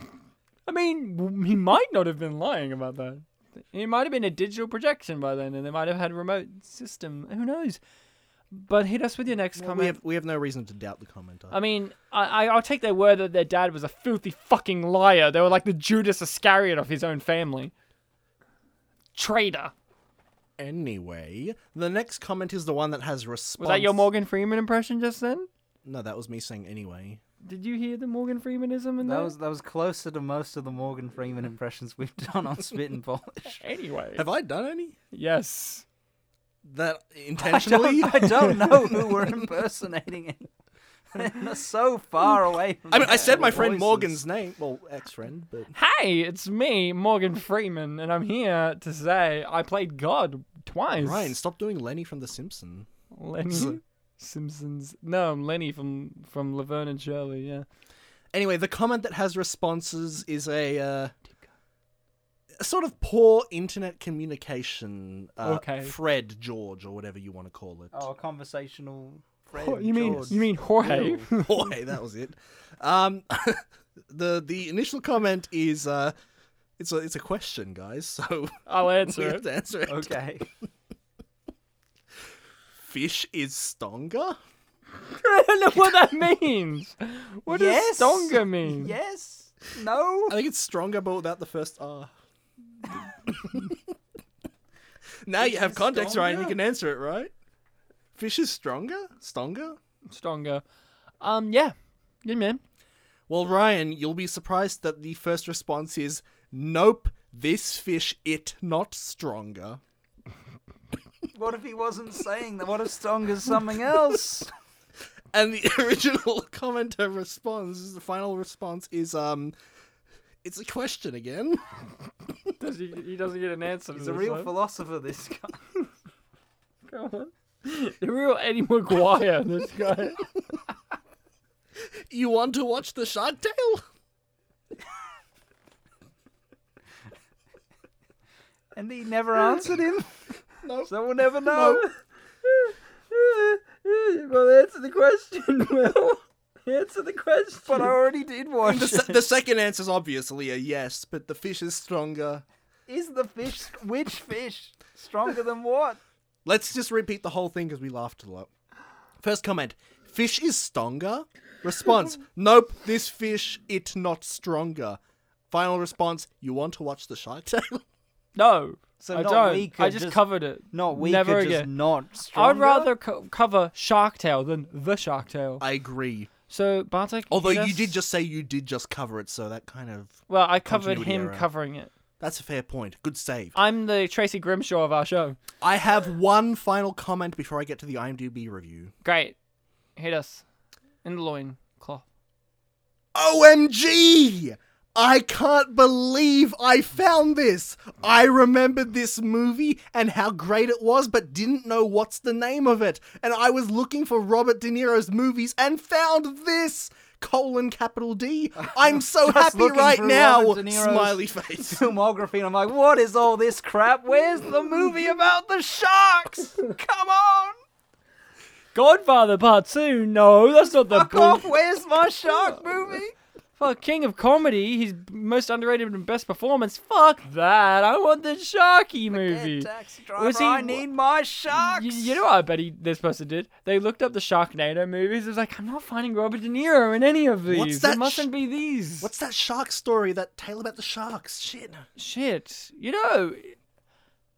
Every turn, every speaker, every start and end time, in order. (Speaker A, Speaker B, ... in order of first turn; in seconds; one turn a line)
Speaker A: 0.7-7.8
Speaker A: 8.5-10.0
Speaker B: 9.6-11.6
Speaker A: 11.5-17.7
Speaker A: 19.1-19.7
Speaker B: 20.6-24.1
Speaker A: 23.6-25.5
Speaker B: 25.9-27.2
Speaker A: 27.4-29.3
Speaker C: 29.0-33.6
Speaker A: 33.6-34.2
Speaker B: 34.2-35.0
Speaker A: 35.1-35.9
Speaker B: 36.6-39.4
Speaker C: 37.4-40.5
Speaker C: 41.1-44.2
Speaker B: 42.9-45.7
Speaker A: 42.9-43.4
Speaker A: 45.7-51.4
Speaker B: 51.0-52.9
Speaker A: 53.1-57.7
Speaker B: 53.5-53.8
Speaker B: 58.3-61.1
Speaker B: 62.6-68.0
Speaker A: 65.4-66.0
Speaker C: 67.9-71.3
Speaker A: 69.6-71.7
Speaker B: 70.0-70.4
Speaker B: 71.3-76.2
Speaker B: 76.8-80.2
Speaker A: 78.7-79.4
Speaker C: 79.9-80.5
Speaker B: 82.8-84.4
Speaker A: 85.1-88.9
Speaker C: 87.5-90.4
Speaker B: 90.3-92.1
Speaker B: 93.3-93.8
Speaker B: 95.2-97.3
Speaker C: 95.4-96.6
Speaker B: 98.2-99.8
Speaker A: 100.1-100.6
Speaker A: 101.2-102.6
Speaker B: 103.3-109.8
Speaker C: 111.3-114.5
Speaker B: 115.3-119.5
Speaker B: 120.4-121.7
Speaker A: 122.6-124.5
Speaker C: 123.9-125.6
Speaker A: 126.9-130.3
Speaker B: 132.1-133.8
Speaker C: 138.7-140.2
Speaker B: 140.6-140.9
Speaker C: 140.9-141.9
Speaker B: 141.4-141.8
Speaker A: 142.5-147.9
Speaker C: 147.7-149.2
Speaker B: 148.6-152.4
Speaker C: 152.9-156.0
Speaker B: 156.4-158.5
Speaker B: 159.2-165.0
Speaker B: 165.5-167.8
Speaker A: 168.4-171.7
Speaker C: 169.0-172.9
Speaker A: 172.3-175.6
Speaker B: 175.6-176.3
Speaker A: 176.5-178.0
Speaker B: 177.3-181.5
Speaker A: 180.3-181.9
Speaker B: 182.2-183.6
Speaker A: 183.6-185.4
Speaker B: 185.6-188.9
Speaker A: 189.0-189.4
Speaker A: 190.0-190.4
Speaker A: 191.0-192.0
Speaker B: 193.1-211.9
Speaker C: 208.6-217.6
Speaker A: 218.8-221.5
Speaker C: 220.9-223.2
Speaker A: 223.6-230.9
Speaker C: 229.1-232.2
Speaker A: 231.5-239.1
Speaker B: 237.5-238.3
Speaker B: 239.0-241.9
Speaker A: 242.0-243.6